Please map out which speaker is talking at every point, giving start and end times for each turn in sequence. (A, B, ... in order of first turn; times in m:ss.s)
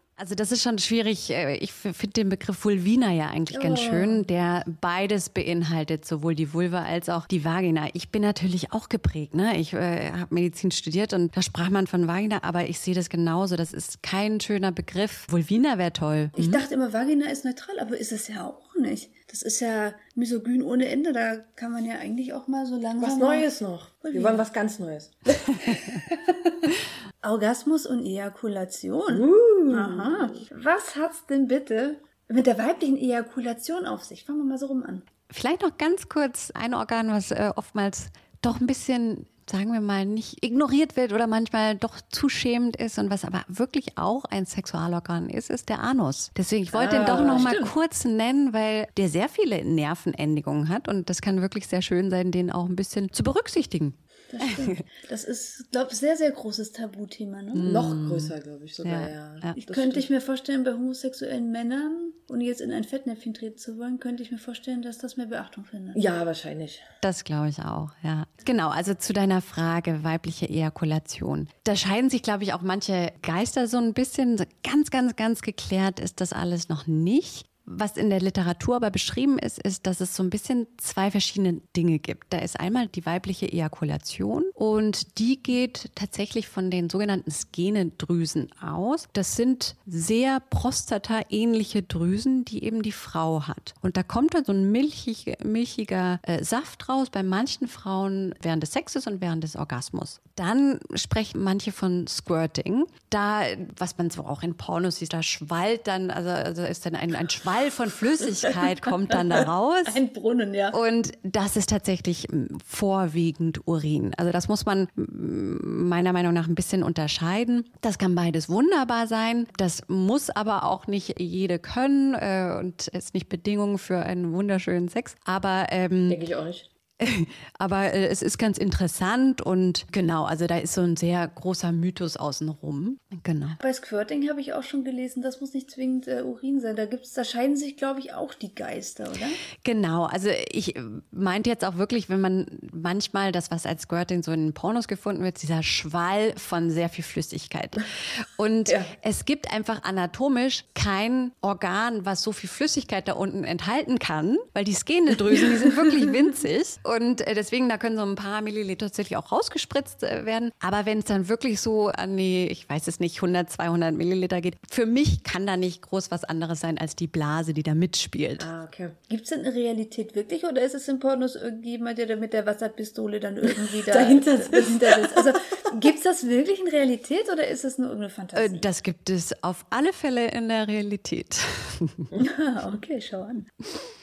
0:00.2-0:16.6 A
0:03.5-0:04.3 B
0:16.4-0:23.5 C
0:23.0-0:25.8 B
0:24.0-0:24.4 C
0:26.1-0:26.6 C
0:27.2-0:35.0 C
0:29.1-0:30.4 B
0:35.3-0:54.8 A
0:46.7-0:47.7 B
0:47.0-0:47.7 C
0:54.3-0:57.7 C
0:57.5-0:59.6 A
0:57.6-1:00.1 B
0:59.6-1:06.0 C
1:05.9-1:06.8 B
1:07.0-1:50.0 A
1:49.9-1:50.8 C
1:50.7-2:06.2 A
2:06.1-2:06.7 B
2:07.0-2:13.6 A
2:13.6-2:19.4 C
2:19.6-2:48.5 A
2:28.7-2:28.9 B
2:48.4-2:49.0 B
2:49.1-2:58.7 C
2:53.5-2:55.3 B
2:58.4-3:02.1 A
3:02.2-3:03.5 C